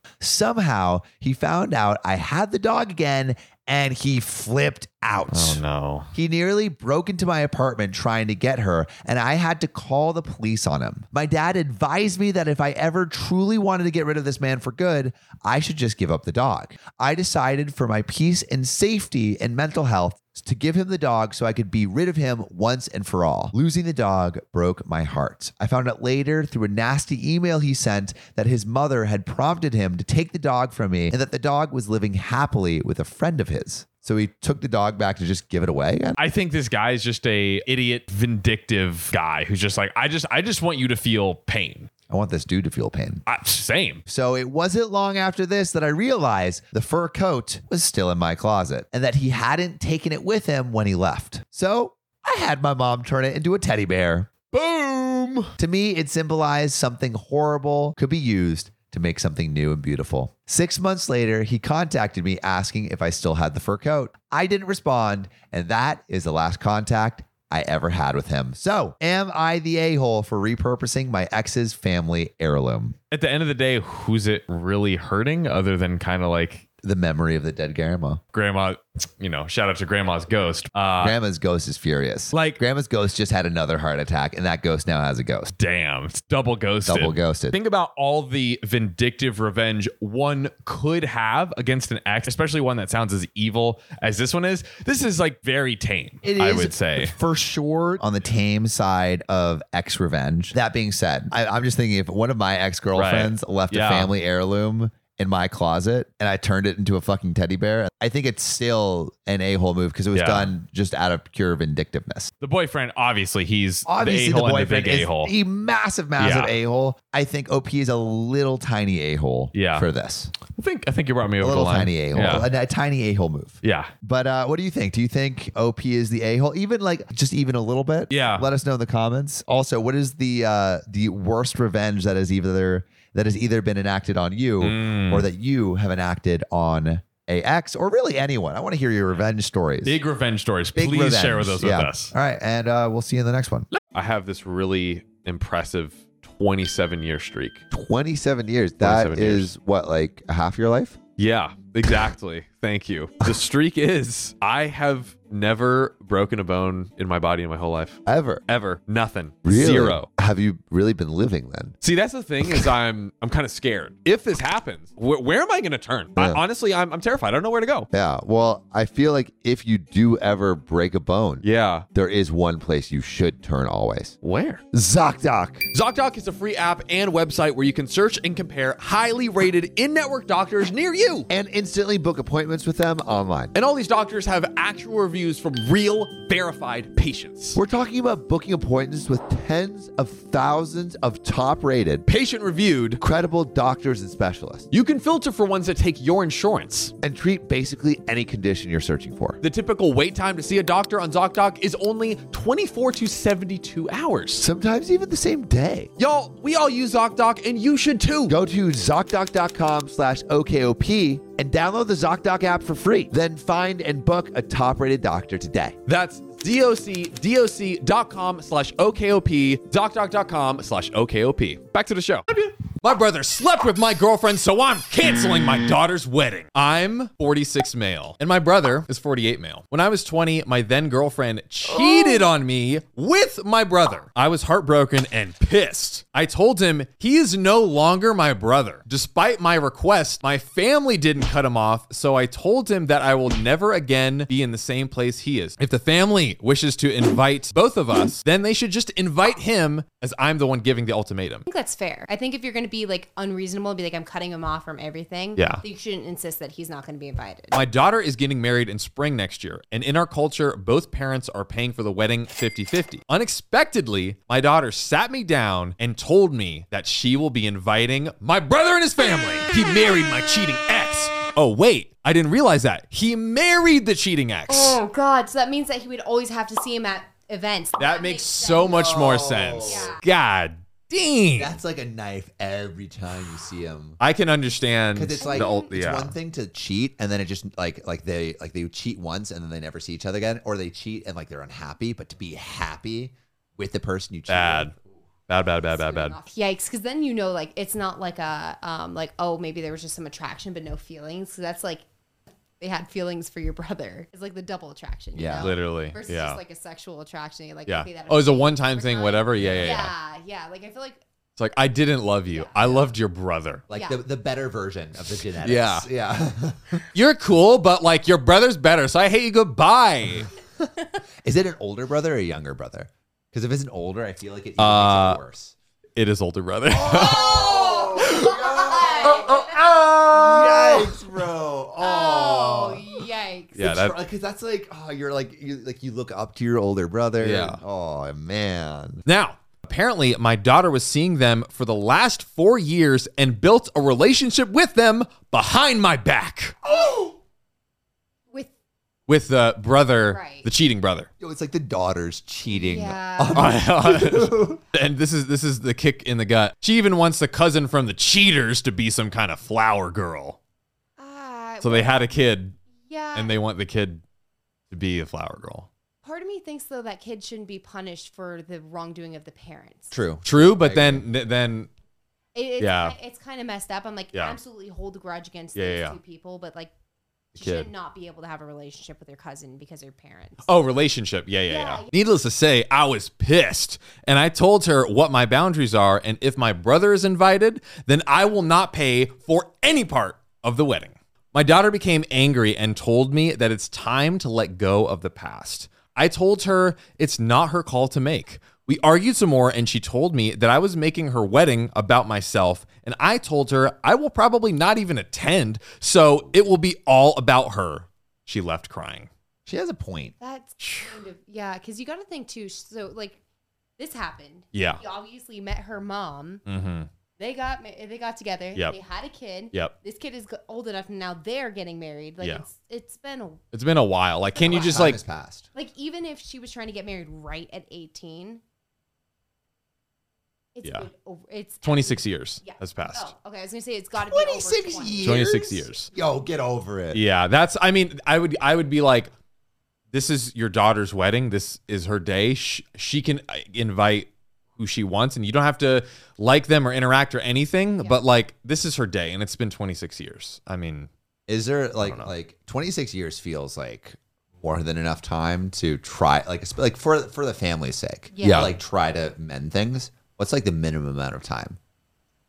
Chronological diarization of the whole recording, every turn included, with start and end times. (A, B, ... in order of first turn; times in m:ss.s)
0:00.2-0:05.6 A
0:05.3-0:06.1 B
0:06.1-0:36.2 A
0:36.2-0:41.9 B
0:42.1-0:43.2 A
0:43.3-0:44.0 B
0:44.1-0:54.3 A
0:54.5-0:55.5 B
0:55.6-1:13.0 A
1:13.1-1:16.6 B
1:16.8-1:18.2 A
1:18.3-1:21.2 B
1:21.0-1:25.5 A
1:22.3-1:22.6 B
1:25.5-1:37.2 B
1:26.8-1:27.6 A
1:36.2-1:52.3 A
1:42.9-1:44.1 B
1:50.1-1:50.5 B
1:52.4-1:55.3 B
1:53.9-2:00.3 A
1:56.2-1:56.6 B
1:59.5-1:59.9 B
2:00.4-2:02.5 B
2:01.4-2:20.0 A
2:03.6-2:03.9 B
2:08.1-2:08.5 B
2:14.6-2:15.3 B
2:19.8-2:22.1 B
2:20.8-2:23.7 A
2:23.8-2:27.6 B
2:27.7-2:31.0 A
2:28.8-2:29.5 B
2:31.2-2:40.1 B
2:38.1-2:38.4 A
2:39.4-2:41.8 A
2:41.8-2:47.9 B
2:42.4-2:42.7 A
2:47.9-2:54.2 A
2:51.4-2:51.9 B
2:54.2-2:54.6 B
2:54.7-2:55.7 A
2:55.7-3:01.3 B
3:01.3-3:03.5 A
3:03.5-3:07.6 B
3:07.6-3:12.1 A
3:12.1-3:13.0 B
3:13.0-3:14.7 A
3:14.7-3:16.9 B
3:17.0-3:19.4 A
3:19.4-3:24.4 B
3:24.4-3:25.9 A
3:26.0-3:28.4 B
3:28.3-3:35.8 A
3:35.9-4:11.5 B
4:11.5-4:17.6 C
4:15.4-4:15.6 B
4:17.5-4:34.8 B
4:34.5-4:39.0 C
4:37.8-4:41.6 B
4:38.7-4:40.0 A
4:39.6-4:40.0 C
4:41.4-4:44.0 A
4:44.0-4:46.2 B
4:44.9-4:54.7 A
4:45.2-4:45.7 C
4:54.3-4:54.7 B
4:55.3-4:56.2 B
4:55.6-5:01.8 C
5:02.6-5:11.0 C
5:05.2-5:05.5 A
5:05.4-5:06.4 B
5:07.7-5:09.9 B
5:09.4-5:09.8 A
5:11.4-5:13.7 B
5:12.3-5:12.9 C
5:13.7-5:14.0 C
5:13.7-5:16.8 A
5:15.4-5:15.9 B
5:16.9-5:20.3 B
5:21.2-5:25.6 A
5:24.6-5:25.2 B
5:26.0-5:28.4 B
5:26.7-5:33.0 A
5:26.9-5:29.6 C
5:30.2-5:31.0 B
5:31.8-5:33.6 C
5:33.6-5:34.0 B
5:33.6-5:39.0 A
5:37.2-5:37.6 B
5:39.1-5:46.6 B
5:46.6-5:47.2 A
5:49.1-5:51.1 B
5:50.1-5:50.5 C
5:51.2-5:54.6 A
5:52.5-5:53.5 C
5:53.3-6:00.4 B
6:01.0-6:02.0 C
6:01.6-6:02.6 B
6:02.9-6:03.3 C
6:03.1-6:04.0 B
6:04.7-6:05.7 B
6:06.0-6:10.0 C
6:09.9-6:11.1 A
6:10.2-6:11.7 B
6:12.4-6:16.7 C
6:12.6-6:13.0 B
6:15.6-6:16.0 B
6:17.4-6:17.7 B
6:17.4-6:20.5 C
6:20.4-6:49.1 B
6:21.5-6:21.9 C
6:49.5-6:50.1 A
6:50.2-6:53.2 C
6:50.6-6:51.0 B
6:53.8-6:56.4 C
6:54.5-6:54.8 B
6:56.5-6:56.9 B
6:57.2-7:03.4 C
7:03.5-7:05.0 B
7:04.3-7:05.0 C
7:04.5-7:05.5 A
7:05.5-7:08.4 C
7:10.6-7:15.2 C
7:11.6-7:13.1 B
7:14.0-7:17.0 A
7:15.0-7:15.9 B
7:16.9-7:19.1 B
7:19.9-7:30.9 B
7:31.3-7:41.6 A
7:31.8-7:32.1 B
7:38.1-7:38.5 C
7:38.2-7:38.5 B